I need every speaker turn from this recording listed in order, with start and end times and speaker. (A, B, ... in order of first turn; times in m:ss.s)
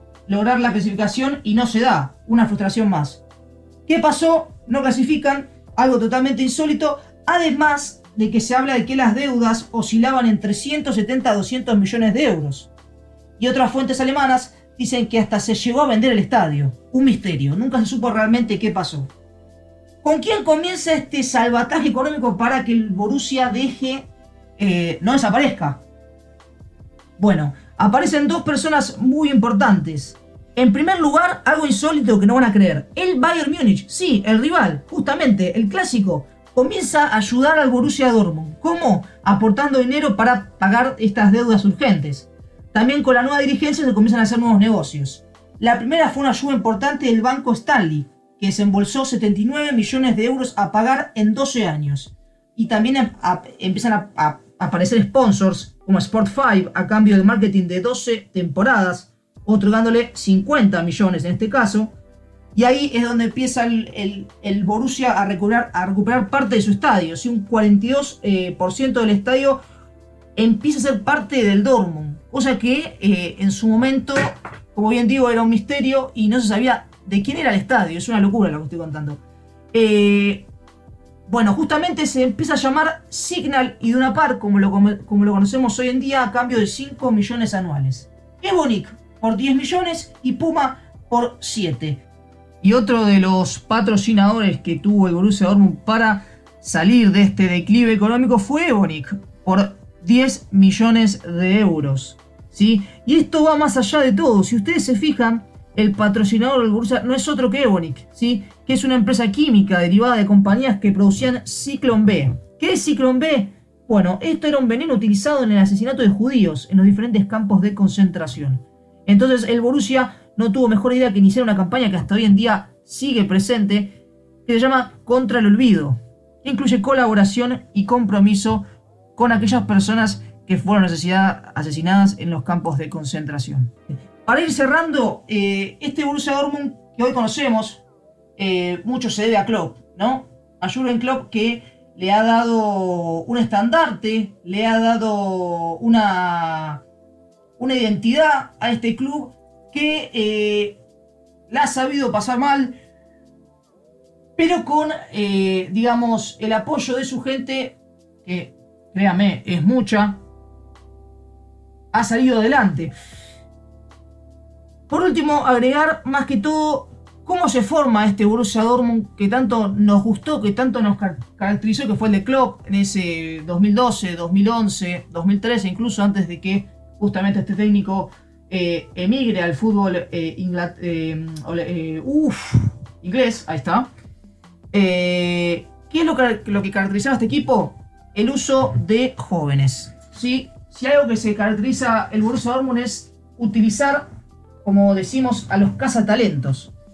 0:00.3-0:03.2 A
0:03.9-0:12.7 A
0:13.4-0:19.1 A
0:20.0-0:25.8 A
0:27.2-1:01.9 A
1:02.5-1:09.6 A
1:10.4-1:19.2 A
1:19.7-1:20.5 A
1:21.3-1:32.0 A
1:32.6-2:08.6 A
2:09.2-2:17.8 A
2:18.4-2:26.8 A
2:27.6-2:30.8 A
2:31.5-2:32.8 A
2:34.4-2:40.2 A
2:41.9-2:42.9 A
2:44.9-3:03.9 A
3:04.7-3:14.1 A
3:14.6-3:16.7 A